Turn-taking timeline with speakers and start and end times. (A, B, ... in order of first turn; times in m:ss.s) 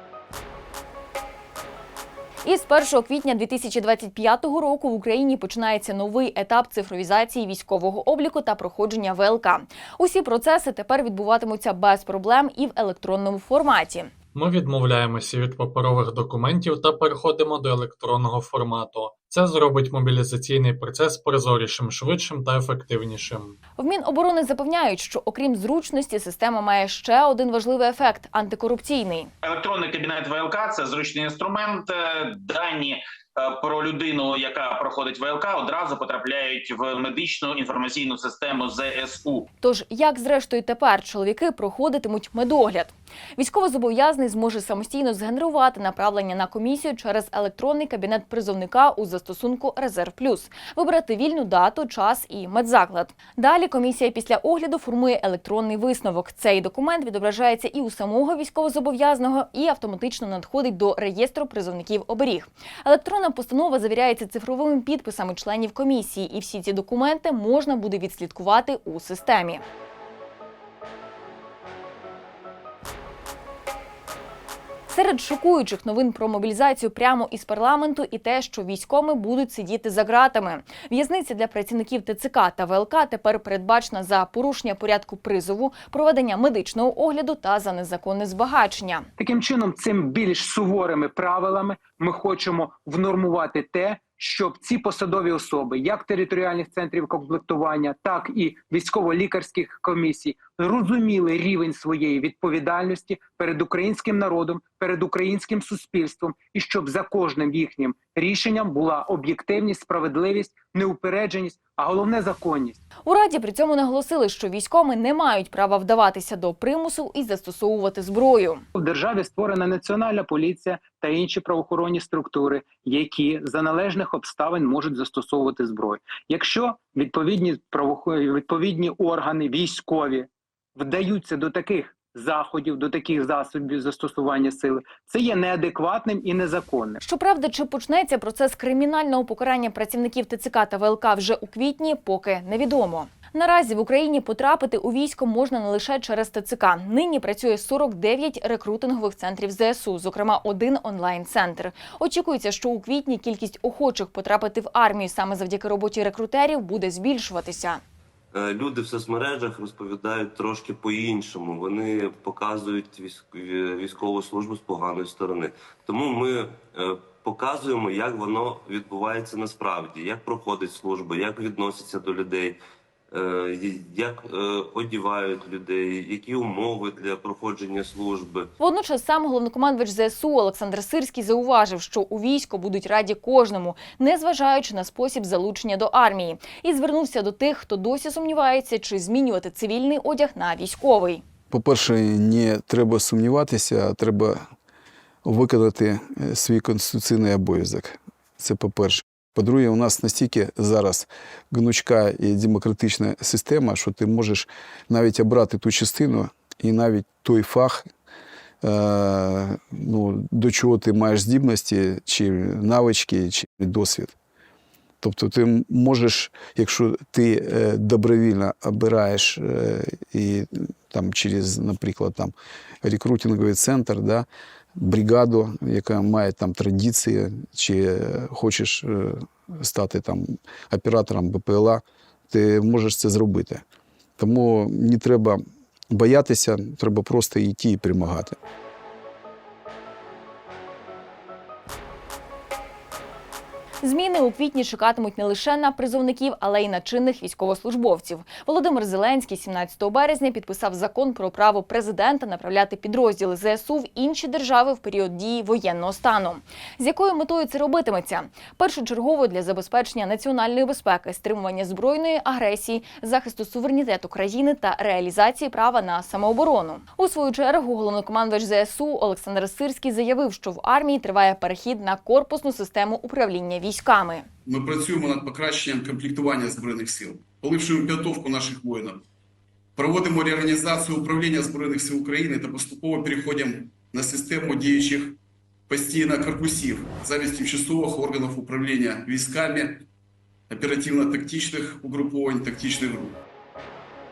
0:02.4-0:14.1 A
0:14.3-0:23.6 B
0:23.8-0:29.3 A
0:29.4-0:39.5 C
0:39.6-1:09.6 A
1:14.9-1:29.1 A
1:29.2-1:52.8 D
1:53.0-1:58.6 A
1:58.8-2:17.0 D
2:17.0-2:37.8 A
2:38.3-2:52.6 E
2:53.1-2:58.5 E
2:58.6-3:11.2 A
3:11.5-3:14.4 F
3:15.2-3:27.9 F
3:28.6-3:34.1 F
3:35.0-3:53.6 F
3:54.2-3:58.4 F
4:03.8-4:34.3 A
4:34.5-4:39.0 G
4:39.8-4:45.2 G
4:45.7-4:49.8 G
4:50.5-4:53.2 G